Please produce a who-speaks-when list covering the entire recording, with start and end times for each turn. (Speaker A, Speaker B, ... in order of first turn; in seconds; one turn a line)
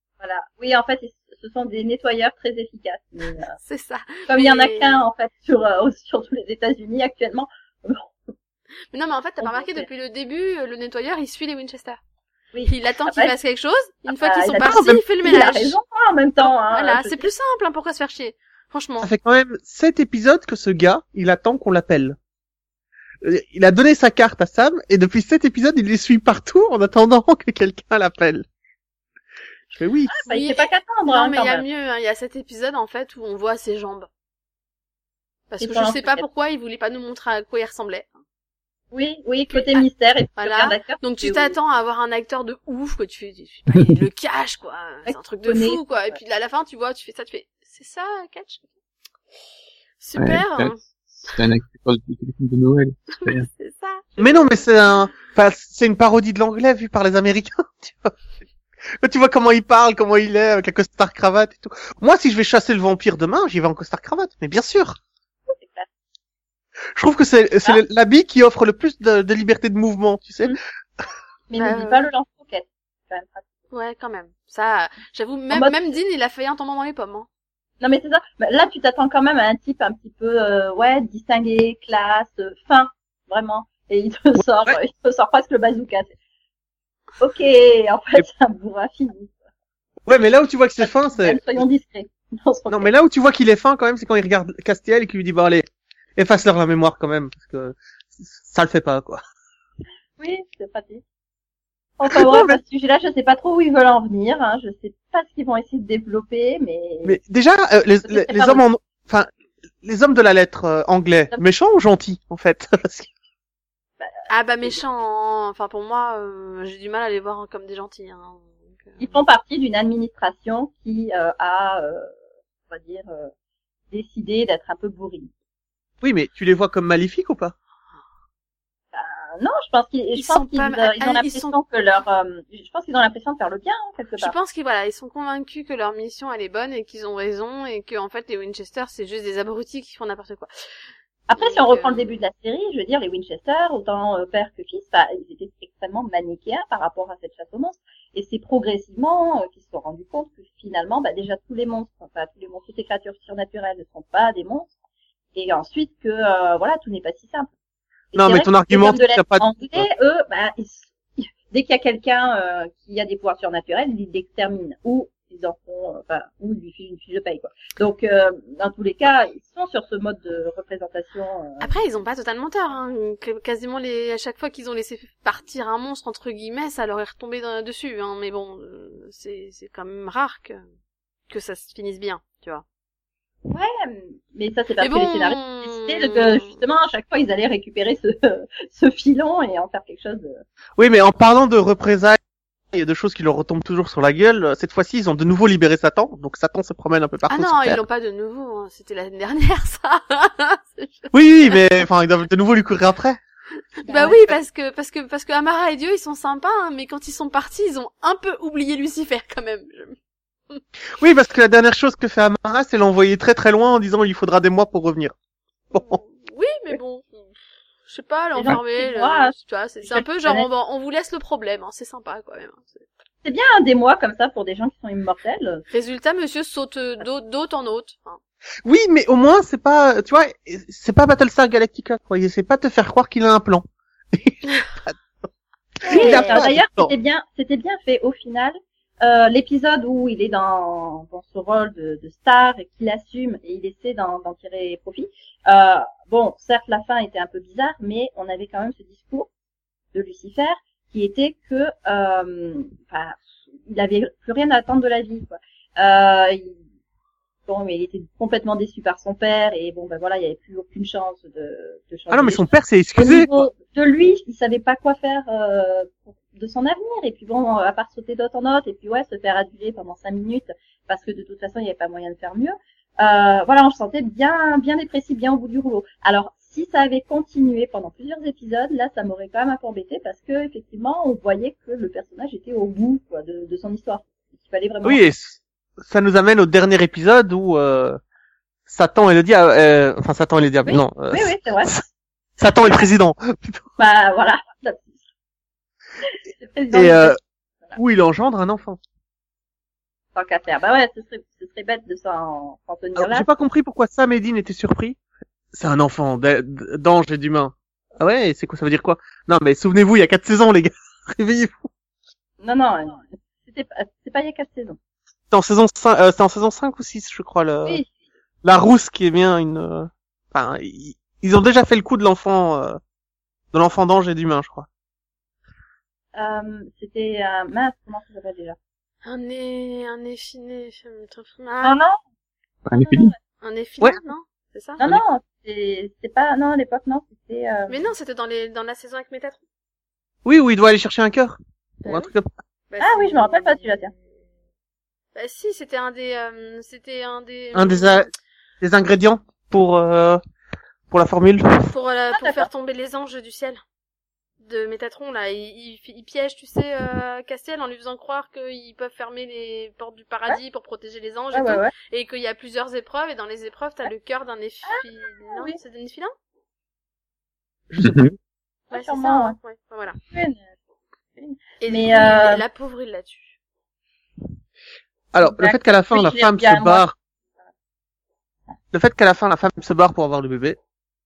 Speaker A: 0.2-3.5
Speaker B: 3.6-5.0
Speaker A: 4.3-8.1
Speaker B: 8.9-12.0
Speaker A: 9.4-9.9
Speaker A: 12.5-13.3
Speaker B: 12.7-15.8
Speaker A: 14.1-17.2
Speaker C: 14.6-15.0
Speaker B: 16.4-19.1
Speaker C: 19.0-22.2
Speaker C: 23.2-28.4
Speaker C: 29.7-30.1
Speaker B: 30.1-34.1
Speaker A: 30.2-31.6
Speaker B: 35.5-38.1
Speaker A: 35.6-36.2
Speaker A: 38.9-41.5
Speaker B: 39.5-39.8
Speaker B: 40.4-48.6
Speaker A: 45.0-46.1
Speaker B: 50.0-51.3
Speaker D: 50.2-53.5
Speaker B: 53.1-54.6
Speaker C: 54.2-58.1
Speaker C: 59.0-65.0
Speaker A: 65.5-65.9
Speaker C: 67.0-70.6
Speaker A: 71.5-73.4
Speaker B: 71.6-72.0
Speaker B: 73.7-77.3
Speaker A: 75.5-75.8
Speaker A: 77.8-86.1
Speaker A: 87.2-89.3
Speaker C: 90.0-91.4
Speaker A: 90.8-92.9
Speaker C: 92.7-99.2
Speaker A: 100.2-101.0
Speaker A: 102.0-107.2
Speaker C: 102.1-102.6
Speaker C: 107.0-109.3
Speaker A: 108.0-108.6
Speaker C: 109.8-113.1
Speaker A: 114.0-114.7
Speaker B: 114.3-119.2
Speaker A: 119.0-122.1
Speaker A: 122.7-123.3
Speaker A: 123.9-125.3
Speaker C: 126.0-127.5
Speaker A: 128.9-134.3
Speaker B: 130.1-131.6
Speaker B: 134.2-140.5
Speaker A: 141.3-154.7
Speaker B: 141.3-142.2
Speaker A: 155.3-157.5
Speaker A: 158.1-171.7
Speaker C: 158.1-159.9
Speaker B: 171.6-180.6
Speaker B: 181.3-182.6
Speaker A: 183.5-190.4
Speaker B: 184.8-186.6
Speaker C: 190.8-192.2
Speaker C: 192.7-197.8
Speaker B: 197.3-201.8
Speaker C: 201.1-203.2
Speaker B: 203.8-209.9
Speaker A: 203.8-204.2
Speaker C: 211.0-215.1
Speaker C: 215.7-216.0
Speaker B: 215.7-222.8
Speaker A: 218.3-220.5
Speaker A: 223.2-225.6
Speaker B: 225.7-228.2
Speaker C: 228.6-234.9
Speaker A: 235.8-249.3
Speaker C: 235.8-236.9
Speaker B: 235.9-236.4
Speaker A: 249.9-256.6
Speaker A: 257.5-285.0
Speaker C: 262.1-263.5
Speaker C: 284.8-288.0
Speaker C: 288.7-291.8
Speaker A: 290.6-291.8
Speaker C: 292.4-293.7
Speaker A: 293.8-295.0
Speaker A: 296.0-297.8
Speaker C: 296.7-297.2
Speaker C: 297.8-298.8
Speaker A: 300.1-303.3
Speaker C: 302.9-305.0
Speaker C: 305.5-311.7
Speaker A: 312.4-314.8
Speaker C: 315.3-317.8
Speaker C: 318.4-322.8
Speaker C: 323.5-324.7
Speaker A: 326.1-328.6
Speaker B: 329.0-331.8
Speaker A: 331.6-332.0
Speaker D: 332.6-333.1
Speaker A: 332.7-333.1
Speaker B: 333.4-334.8
Speaker A: 334.8-337.8
Speaker B: 337.7-339.4
Speaker C: 340.2-342.3
Speaker B: 341.8-342.1
Speaker B: 342.7-344.0
Speaker A: 342.8-343.9
Speaker B: 345.1-348.1
Speaker C: 347.5-348.1
Speaker C: 348.6-350.2
Speaker C: 350.9-351.7
Speaker B: 351.6-353.6
Speaker A: 352.1-352.5
Speaker B: 354.4-366.1
Speaker A: 361.3-361.7
Speaker A: 364.6-365.6
Speaker C: 367.7-368.1
Speaker D: 367.8-368.1
Speaker A: 368.7-369.4
Speaker B: 368.7-370.0
Speaker A: 370.0-370.4
Speaker A: 371.2-372.4
Speaker B: 371.6-373.4
Speaker C: 375.1-376.9
Speaker A: 375.2-376.8
Speaker C: 378.7-380.6